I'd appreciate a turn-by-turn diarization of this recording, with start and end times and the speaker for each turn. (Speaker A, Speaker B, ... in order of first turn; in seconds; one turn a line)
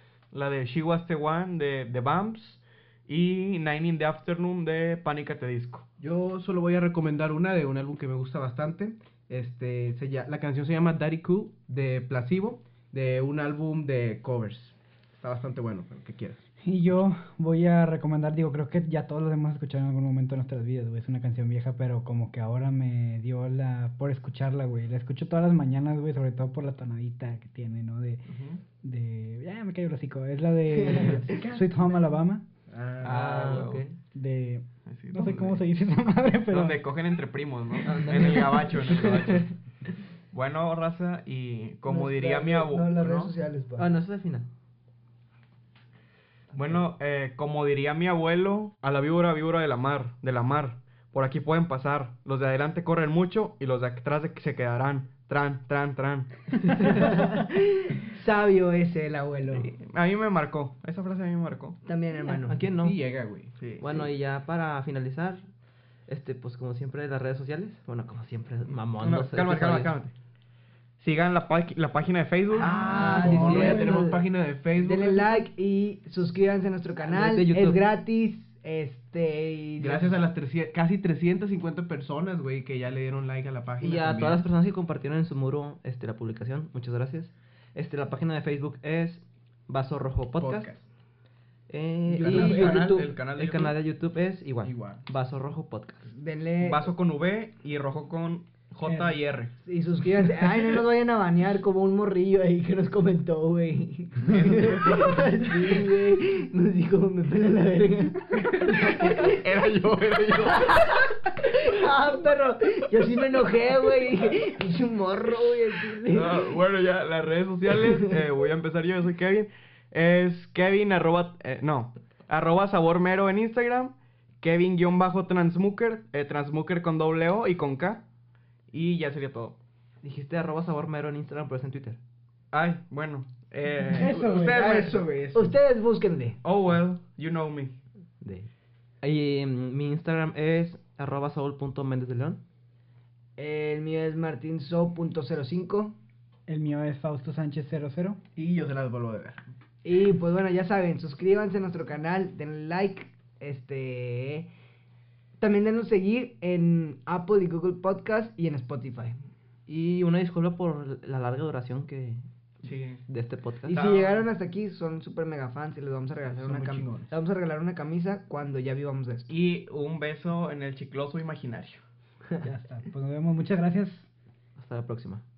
Speaker A: 0.3-5.9
Speaker B: 6.0-16.4
Speaker C: 16.6-28.2
Speaker A: 28.3-28.6
Speaker C: 28.8-32.4
Speaker D: 30.7-31.6
Speaker B: 31.2-31.6
Speaker B: 32.7-33.3
Speaker A: 33.0-33.8
Speaker E: 33.0-34.0
Speaker C: 34.1-36.8
Speaker A: 34.9-35.6
Speaker A: 36.5-39.5
Speaker E: 37.8-39.5
Speaker A: 40.3-43.3
Speaker D: 41.9-43.9
Speaker E: 43.8-44.5
Speaker A: 46.5-57.0
Speaker D: 56.9-59.7
Speaker A: 59.5-61.8
Speaker D: 61.9-62.6
Speaker E: 62.2-63.0
Speaker B: 62.8-63.5
Speaker A: 63.6-64.0
Speaker E: 63.8-65.4
Speaker E: 66.1-69.9
Speaker A: 69.0-70.1
Speaker A: 71.0-72.8
Speaker E: 72.6-74.1
Speaker D: 72.6-80.2
Speaker B: 72.7-75.4
Speaker C: 72.9-73.9
Speaker E: 77.0-77.8
Speaker B: 79.8-84.5
Speaker E: 83.8-90.7
Speaker B: 90.4-90.9
Speaker E: 91.7-96.1
Speaker C: 92.1-92.7
Speaker D: 92.2-93.1
Speaker A: 92.2-93.8
Speaker B: 94.6-95.0
Speaker D: 96.1-96.8
Speaker A: 96.6-99.5
Speaker C: 98.8-99.2
Speaker D: 99.6-109.3
Speaker A: 104.2-105.2
Speaker A: 108.5-111.1
Speaker D: 110.4-116.6
Speaker A: 116.1-128.0
Speaker D: 117.7-118.2
Speaker A: 128.7-129.6
Speaker E: 130.0-132.0
Speaker A: 132.5-135.3
Speaker D: 133.9-136.4
Speaker C: 133.9-134.6
Speaker B: 134.0-135.4
Speaker A: 136.4-137.8
Speaker E: 138.2-138.5
Speaker E: 139.0-142.4
Speaker D: 143.4-145.9
Speaker C: 146.5-148.2
Speaker B: 148.4-149.4
Speaker D: 149.8-154.5
Speaker D: 155.4-159.2
Speaker E: 159.7-162.2
Speaker A: 162.6-163.0
Speaker E: 163.1-163.8
Speaker D: 163.7-169.3
Speaker A: 163.7-164.3
Speaker B: 166.3-167.1
Speaker A: 169.3-171.8
Speaker C: 172.4-174.1
Speaker E: 174.6-175.2